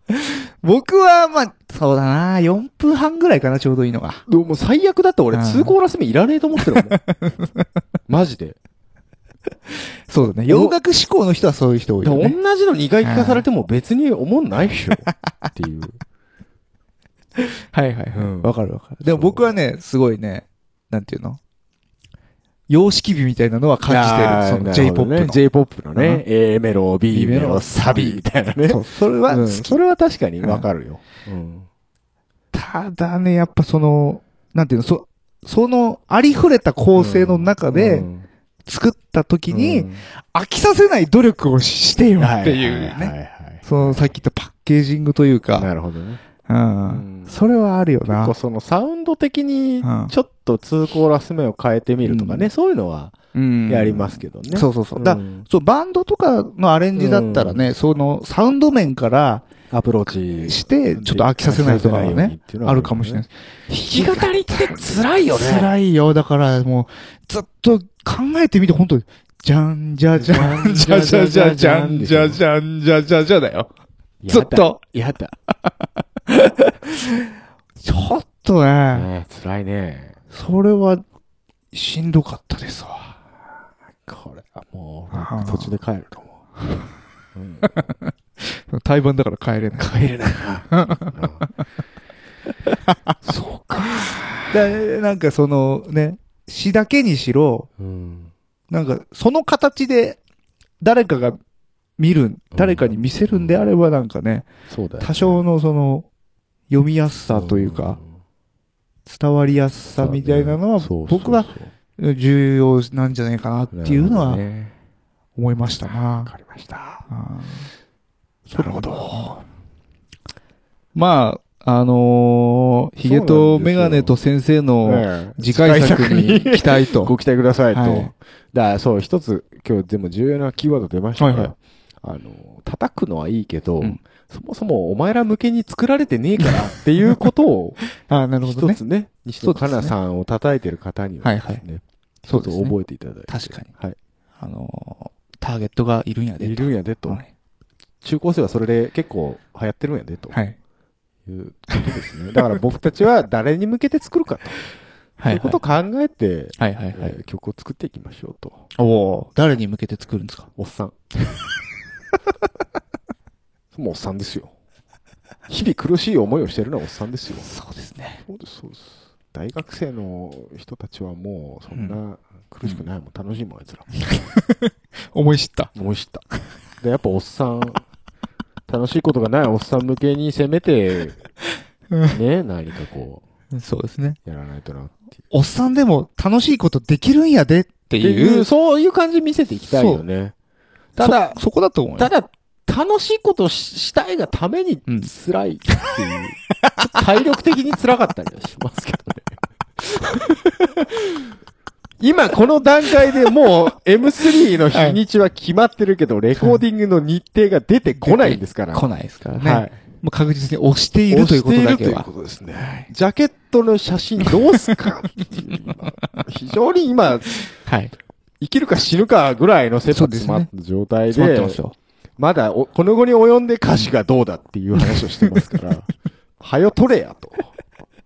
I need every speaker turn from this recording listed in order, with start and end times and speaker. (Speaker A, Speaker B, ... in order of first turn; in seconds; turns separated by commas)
Speaker A: 0.1-4.2, Speaker B: 4.3-7.0, Speaker A: 5.3-5.7, Speaker A: 6.6-7.7, Speaker B: 8.1-8.6, Speaker A: 10.1-12.4, Speaker B: 10.5-10.8, Speaker B: 12.0-16.0, Speaker A: 13.0-13.4, Speaker A: 17.4-21.4, Speaker B: 18.1-18.5, Speaker B: 19.1-19.4, Speaker A: 22.7-25.4, Speaker B: 23.9-31.7, Speaker A: 25.9-26.2, Speaker A: 27.1-29.8, Speaker A: 32.5-38.1, Speaker B: 36.9-38.3, Speaker A: 38.6-45.7, Speaker B: 39.5-40.0, Speaker B: 42.2-44.1, Speaker B: 45.5-46.2, Speaker A: 46.5-48.3, Speaker B: 46.9-47.4, Speaker B: 48.0-53.1, Speaker A: 49.8-50.1, Speaker A: 52.0-52.5, Speaker A: 53.3-59.4, Speaker B: 53.7-55.5, Speaker B: 56.9-57.6, Speaker B: 59.7-63.2, Speaker A: 60.5-73.7, Speaker B: 63.7-65.7, Speaker B: 70.2-72.4, Speaker B: 74.2-75.3, Speaker A: 74.3-74.8, Speaker A: 76.3-77.3, Speaker A: 77.8-79.1, Speaker B: 78.9-80.2, Speaker A: 80.3-81.0, Speaker A: 81.7-83.2, Speaker B: 84.0-86.5, Speaker A: 85.1-85.8, Speaker B: 87.3-87.9, Speaker A: 87.8-91.5, Speaker B: 89.8-91.4, Speaker B: 93.2-94.6, Speaker A: 94.5-97.7, Speaker B: 97.8-98.3, Speaker A: 98.7-100.2, Speaker A: 100.8-101.4, Speaker A: 102.0-104.5, Speaker B: 102.5-103.7, Speaker B: 104.7-105.4, Speaker A: 105.0-106.0, Speaker A: 106.7-108.0, Speaker B: 107.3-108.2, Speaker A: 109.0-114.4, Speaker B: 110.0-111.7, Speaker B: 113.7-114.7, Speaker A: 115.3-116.3, Speaker B: 116.2-117.0, Speaker A: 117.1-117.7, Speaker A: 118.5-119.4, Speaker B: 118.5-119.4, Speaker A: 120.9-127.1, Speaker B: 123.0-124.1, Speaker B: 124.8-137.8, Speaker A: 127.7-128.1, Speaker A: 131.2-131.5, Speaker A: 136.4-137.3, Speaker A: 137.9-138.8, Speaker B: 138.4-144.0, Speaker A: 139.4-139.9, Speaker A: 141.2-141.6, Speaker A: 142.3-142.8, Speaker A: 143.3-143.7, Speaker A: 144.4-147.3, Speaker B: 146.4-147.2, Speaker B: 148.0-150.4, Speaker B: 151.2-154.6, Speaker A: 155.2-155.6, Speaker B: 155.2-158.6, Speaker A: 156.6-157.2, Speaker A: 158.8-160.5, Speaker B: 160.6-160.9, Speaker B: 163.7-164.5, Speaker B: 165.5-167.5, Speaker A: 167.4-168.2, Speaker B: 168.2-173.9, Speaker A: 174.0-175.7, Speaker B: 175.7-176.2, Speaker B: 176.8-177.8, Speaker B: 178.7-181.3, Speaker B: 182.1-183.2, Speaker A: 183.5-184.2, Speaker B: 184.2-185.0, Speaker A: 185.3-188.5, Speaker B: 188.0-190.3, Speaker A: 189.7-190.0, Speaker B: 190.9-191.4, Speaker A: 191.0-192.1, Speaker B: 191.9-201.2, Speaker B: 202.0-209.8, Speaker A: 204.7-205.0, Speaker A: 207.9-212.1, Speaker B: 211.1-217.5, Speaker A: 212.6-212.9, Speaker A: 214.2-214.8, Speaker A: 217.5-217.9, Speaker B: 218.4-221.6, Speaker A: 219.9-220.5, Speaker A: 221.1-221.7, Speaker B: 222.2-227.5